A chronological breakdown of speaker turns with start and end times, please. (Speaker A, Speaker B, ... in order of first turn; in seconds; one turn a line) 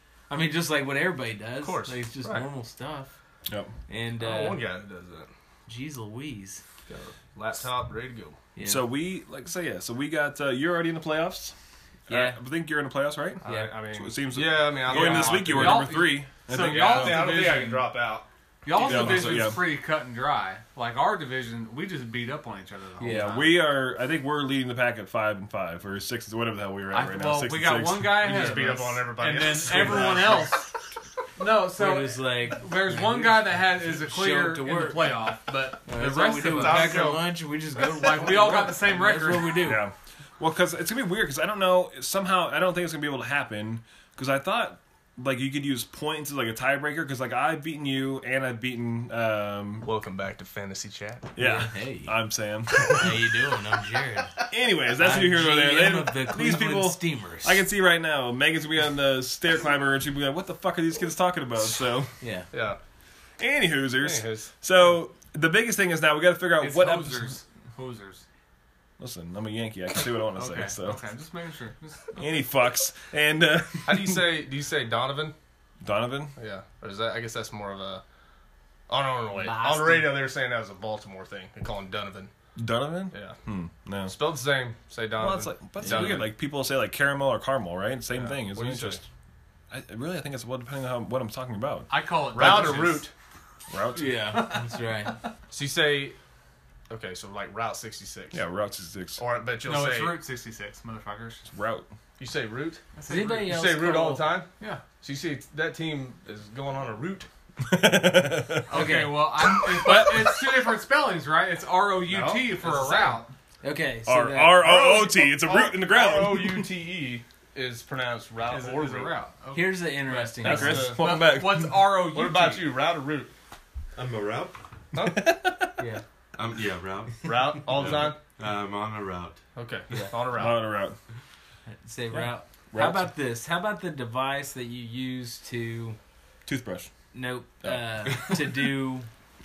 Speaker A: 0.3-3.1
Speaker B: 1.6-2.5
Speaker C: 3.5-3.7
Speaker A: 3.9-4.6
Speaker B: 4.2-5.3
Speaker A: 5.7-6.6
Speaker B: 6.9-8.3
Speaker A: 8.6-8.9
Speaker C: 8.6-11.5
Speaker A: 12.1-12.4
Speaker C: 12.1-17.4
Speaker B: 13.4-16.0
Speaker A: 13.4-13.7
Speaker D: 14.9-17.9
Speaker B: 16.5-19.5
Speaker D: 18.6-23.4
Speaker C: 18.8-19.6
Speaker A: 23.0-23.5
Speaker C: 23.0-28.4
Speaker D: 26.9-30.7
Speaker B: 28.2-30.6
Speaker D: 31.4-37.2
Speaker A: 31.8-35.2
Speaker A: 35.9-39.8
Speaker B: 36.4-37.3
Speaker D: 37.8-39.7
Speaker C: 39.6-49.9
Speaker B: 49.8-51.3
Speaker C: 51.3-53.0
Speaker A: 51.4-52.1
Speaker A: 52.8-54.4
Speaker C: 54.5-62.1
Speaker A: 55.0-57.6
Speaker A: 62.2-62.5
Speaker B: 62.5-62.8
Speaker C: 63.4-67.3
Speaker B: 64.0-64.5
Speaker D: 66.6-68.2
Speaker C: 69.0-71.0
Speaker D: 70.3-72.3
Speaker C: 72.2-74.2
Speaker B: 73.8-75.3
Speaker C: 75.8-76.3
Speaker B: 76.3-78.0
Speaker B: 78.9-82.3
Speaker A: 79.3-80.3
Speaker C: 82.5-84.1
Speaker B: 83.1-83.4
Speaker B: 84.0-86.3
Speaker C: 85.2-89.0
Speaker A: 85.8-86.2
Speaker B: 88.1-89.0
Speaker C: 89.7-92.9
Speaker D: 91.9-93.1
Speaker B: 92.3-93.1
Speaker C: 93.7-94.4
Speaker A: 93.9-95.1
Speaker B: 95.5-96.2
Speaker B: 96.9-98.4
Speaker C: 98.3-99.2
Speaker B: 99.2-100.2
Speaker D: 99.6-101.4
Speaker C: 101.5-101.9
Speaker B: 102.2-102.8
Speaker D: 103.0-103.6
Speaker A: 103.1-104.3
Speaker B: 103.4-104.5
Speaker B: 105.0-107.3
Speaker C: 107.6-110.4
Speaker D: 108.7-113.3
Speaker A: 108.7-109.2
Speaker B: 112.1-113.2
Speaker A: 113.6-114.7
Speaker C: 114.0-116.7
Speaker B: 114.6-119.1
Speaker D: 118.5-122.7
Speaker A: 119.5-121.0
Speaker C: 120.4-121.9
Speaker B: 120.5-121.0
Speaker B: 122.1-123.3
Speaker E: 123.9-124.6
Speaker B: 124.9-125.3
Speaker C: 125.0-125.8
Speaker E: 126.3-129.4
Speaker B: 127.2-128.2
Speaker B: 129.6-130.6
Speaker C: 130.3-130.9
Speaker A: 131.7-136.0
Speaker C: 132.2-133.1
Speaker C: 136.4-136.9
Speaker A: 137.1-139.1
Speaker C: 137.6-138.3